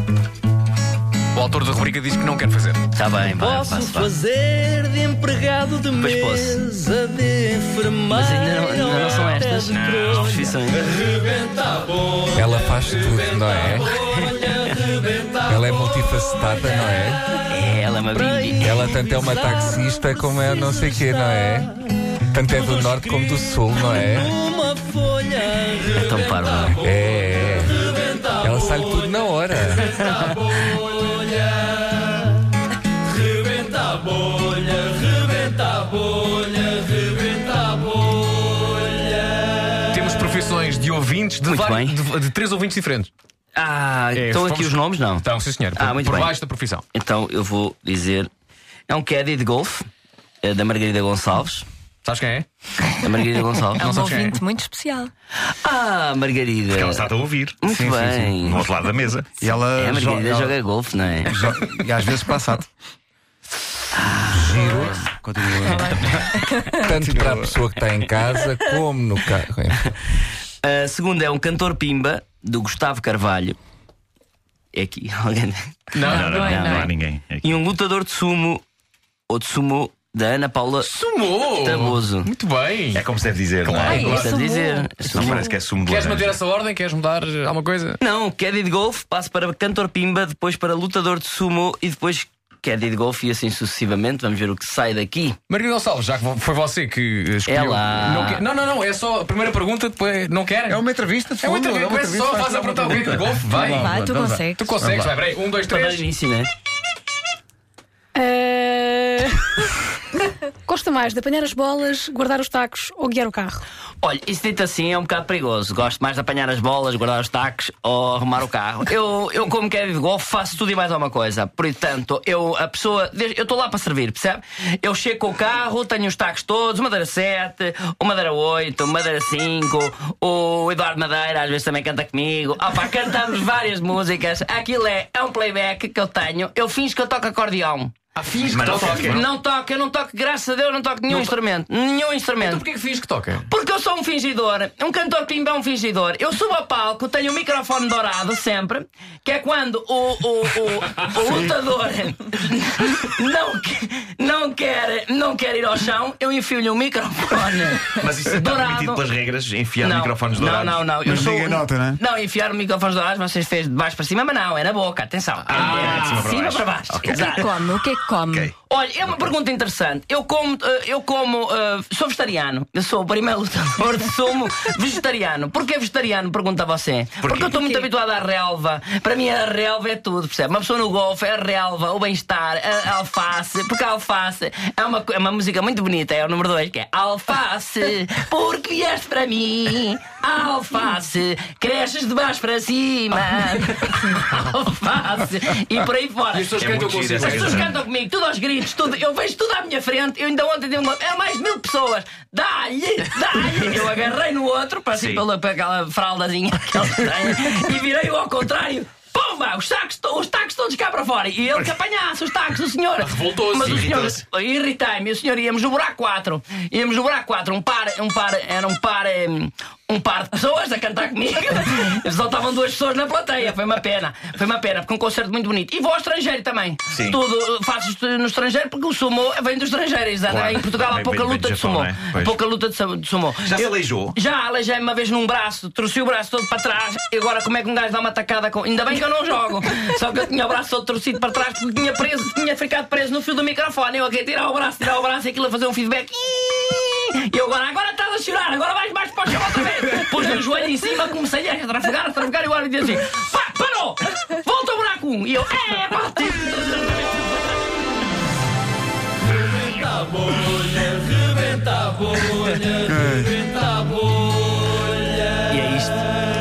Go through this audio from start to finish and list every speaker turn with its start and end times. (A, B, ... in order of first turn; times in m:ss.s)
0:01.3-0:02.8 A
0:02.9-0:04.1 B
0:03.6-0:08.1 C
0:05.9-0:06.7 B
0:08.1-0:10.9 B
0:09.2-0:10.3 C
0:12.3-0:13.9 D
0:15.4-0:17.2 D
0:17.5-0:18.8 B
0:18.6-0:21.7 D
0:22.3-0:24.3 D
0:24.3-0:25.7 C
0:25.9-0:26.8 B
0:26.8-0:27.8 D
0:28.4-0:29.9 D
0:39.9-0:43.1 A
0:41.4-0:42.0 B
0:43.6-0:46.3 B
0:44.1-0:46.8 A
0:46.9-0:48.3 B
0:48.9-0:49.9 B
0:50.4-0:51.6 B
0:52.0-0:52.5 A
0:53.0-0:54.0 B
0:53.8-0:55.1 E
0:53.8-0:54.4 A
0:55.6-0:58.6 B
0:56.7-0:57.6 F
0:57.6-0:58.3 G
0:58.4-0:59.4 F
0:59.4-1:00.6 G
0:59.7-1:01.4 B
1:01.2-1:02.7 G
1:03.9-1:04.6 B
1:04.3-1:04.9 D
1:04.5-1:06.3 G
1:05.6-1:06.8 E
1:06.8-1:09.9 D
1:06.9-1:07.5 G
1:10.6-1:13.6 B
1:14.7-1:18.6 B
1:15.9-1:16.4 A
1:16.0-1:17.6 F
1:16.1-1:16.9 E
1:19.3-1:20.9 B
1:20.8-1:23.0 A
1:21.5-1:22.3 B
1:22.9-1:24.3 F
1:23.6-1:24.3 A
1:23.8-1:25.0 E
1:24.0-1:25.5 B
1:25.0-1:26.4 F
1:25.8-1:28.0 A
1:28.0-1:35.4 B
1:35.5-1:40.8 A
1:37.4-1:38.4 B
1:40.7-1:45.1 G
1:41.4-1:46.0 A
1:43.8-1:44.8 E
1:45.6-1:46.5 B
1:48.1-1:49.6 H
1:50.6-1:53.6 H
1:54.0-2:18.0 B
2:18.2-2:19.2 A
2:18.4-2:19.2 F
2:18.9-2:22.7 B
2:22.4-2:23.4 A
2:23.5-2:39.0 B
2:38.0-2:40.9 F
2:39.8-2:47.6 B
2:41.0-2:42.0 G
2:45.5-2:47.7 F
2:45.6-2:46.0 A
2:47.1-2:48.5 E
2:48.2-2:48.5 F
2:48.6-3:16.6 B
2:57.2-2:57.6 F
3:16.3-3:17.7 A
3:16.6-3:17.7 F
3:17.2-4:17.8 B
3:24.9-3:25.2 F
3:33.1-3:33.8 A
3:33.6-3:34.1 F
3:46.9-3:47.2 F
3:50.3-3:52.4 F
3:53.4-3:54.1 F
4:22.7-4:23.5 G
4:25.5-4:26.0 B